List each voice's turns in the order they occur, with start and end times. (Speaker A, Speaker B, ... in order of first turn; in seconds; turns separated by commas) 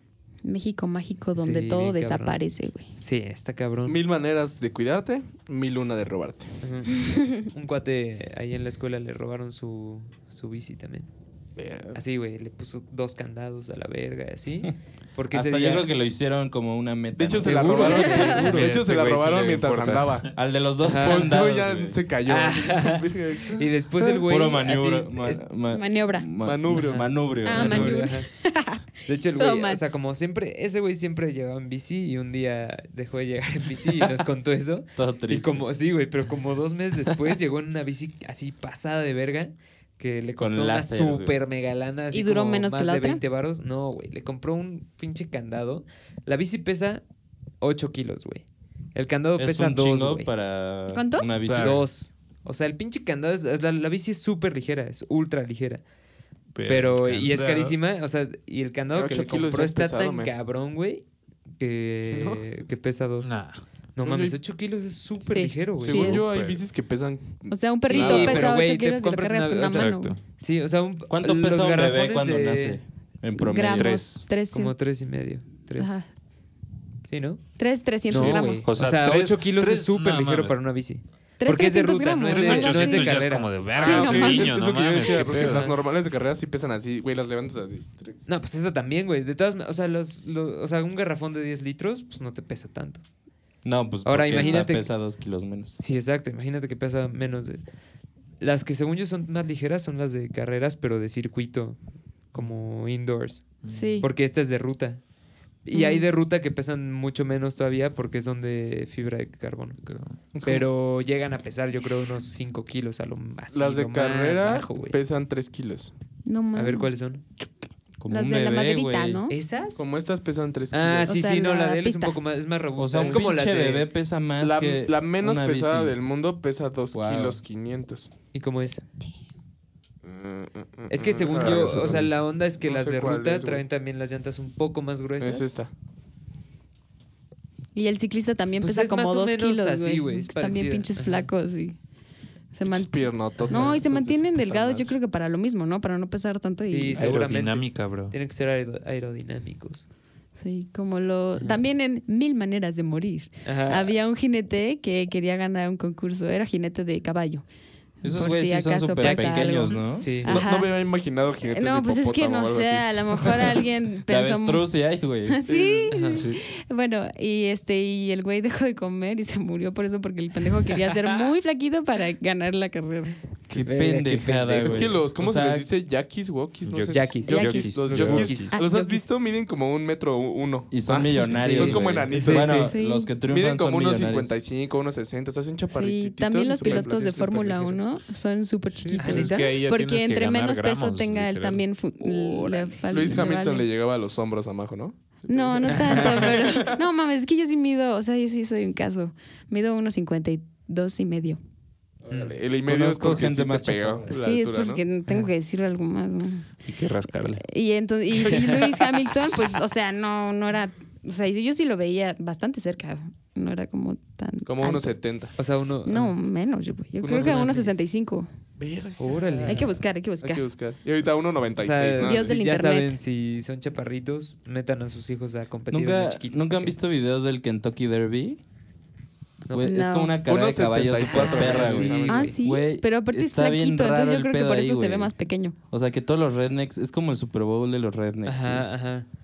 Speaker A: 0.4-2.9, Speaker B: 1.4-2.4, Speaker B: 2.9-4.0, Speaker C: 3.8-6.6, Speaker B: 6.6-11.1, Speaker A: 7.0-7.4, Speaker C: 11.6-12.0, Speaker B: 11.9-15.9, Speaker D: 15.3-18.8, Speaker C: 17.1-20.3, Speaker B: 17.4-18.3, Speaker E: 18.1-20.3, Speaker D: 20.3-22.0, Speaker B: 20.8-21.4, Speaker C: 20.9-23.6, Speaker B: 22.2-25.4, Speaker D: 24.3-28.1, Speaker A: 25.7-26.3, Speaker C: 26.4-27.2, Speaker B: 26.7-28.3, Speaker A: 27.4-29.8, Speaker B: 29.1-47.0, Speaker D: 35.0-35.6, Speaker D: 40.4-41.4, Speaker A: 42.1-43.2, Speaker B: 47.6-50.3, Speaker D: 49.4-51.8, Speaker A: 50.9-51.3, Speaker E: 51.4-51.8, Speaker B: 51.5-55.8, Speaker E: 56.5-57.8, Speaker B: 56.6-63.3, Speaker C: 58.9-60.3, Speaker C: 62.1-62.5, Speaker E: 63.2-63.6, Speaker B: 64.0-66.2, Speaker C: 64.0-64.4, Speaker A: 65.2-66.2, Speaker C: 65.8-68.4, Speaker E: 65.8-66.6, Speaker A: 67.5-70.1, Speaker B: 67.8-72.8, Speaker D: 67.9-68.5, Speaker E: 69.7-70.2, Speaker D: 71.1-74.0, Speaker A: 73.3-74.7, Speaker E: 73.5-74.2, Speaker B: 74.5-75.9, Speaker A: 75.8-76.0, Speaker B: 77.1-84.4, Speaker A: 77.6-78.7, Speaker E: 78.1-80.5, Speaker A: 81.4-84.5, Speaker E: 82.3-85.7, Speaker C: 83.8-88.2, Speaker B: 85.1-85.8, Speaker B: 88.2-93.0, Speaker D: 93.6-95.8, Speaker B: 94.0-94.9, Speaker A: 94.3-94.6, Speaker B: 95.8-97.6, Speaker B: 98.4-101.8, Speaker B: 102.3-105.0, Speaker E: 103.6-104.0, Speaker A: 103.7-104.1, Speaker B: 105.6-109.8, Speaker A: 105.7-106.1, Speaker E: 109.8-110.2, Speaker C: 110.3-110.7, Speaker B: 110.4-115.0, Speaker C: 113.5-115.9, Speaker A: 116.2-116.9, Speaker B: 116.5-117.2, Speaker D: 118.0-119.3, Speaker A: 118.1-119.3, Speaker B: 119.3-119.9, Speaker C: 119.8-121.2, Speaker B: 120.7-123.9, Speaker A: 121.1-122.2, Speaker D: 122.8-126.0, Speaker C: 123.0-123.2, Speaker C: 124.4-128.1, Speaker D: 126.9-127.4, Speaker B: 128.3-128.8, Speaker C: 130.0-133.6, Speaker B: 130.9-135.5, Speaker E: 131.2-132.1, Speaker C: 135.2-135.7, Speaker A: 137.7-141.8, Speaker B: 138.6-141.3, Speaker A: 142.5-147.2, Speaker C: 142.7-144.9, Speaker B: 143.4-143.9, Speaker B: 146.6-149.8, Speaker E: 146.9-148.1, Speaker A: 150.3-157.4, Speaker B: 153.4-153.9, Speaker A: 158.0-160.9, Speaker D: 158.0-160.1, Speaker B: 159.0-160.4, Speaker C: 160.2-163.6, Speaker A: 161.4-164.7, Speaker D: 164.1-165.4, Speaker A: 165.2-173.2, Speaker C: 165.4-165.9, Speaker B: 165.9-166.2, Speaker E: 166.1-166.4, Speaker D: 173.5-175.7, Speaker B: 173.5-174.9, Speaker C: 174.6-187.8, Speaker E: 176.6-178.5, Speaker B: 176.9-178.6, Speaker A: 177.3-177.7, Speaker A: 178.5-179.1, Speaker D: 180.7-184.4, Speaker B: 181.3-182.7, Speaker A: 182.7-183.1, Speaker A: 185.7-193.7, Speaker B: 186.6-187.3, Speaker B: 188.8-189.4, Speaker E: 188.9-191.6, Speaker C: 192.0-196.8, Speaker A: 195.3-201.4, Speaker B: 195.6-196.6, Speaker C: 202.0-204.8, Speaker B: 202.1-202.3, Speaker D: 202.7-204.1, Speaker A: 204.1-206.5, Speaker E: 206.7-207.4, Speaker A: 207.3-215.0, Speaker C: 208.3-208.7, Speaker C: 214.4-215.3, Speaker B: 215.4-216.1, Speaker A: 215.8-218.3, Speaker C: 217.0-217.8, Speaker B: 217.1-217.8, Speaker C: 218.6-222.4, Speaker B: 219.0-219.7, Speaker A: 219.4-220.4, Speaker B: 221.6-226.7, Speaker A: 222.0-222.9, Speaker D: 225.7-228.4, Speaker B: 229.4-229.7, Speaker D: 229.5-235.1, Speaker A: 229.6-230.2, Speaker C: 230.2-232.4, Speaker B: 231.1-232.3, Speaker A: 231.2-235.6, Speaker D: 235.7-238.7, Speaker B: 238.2-239.1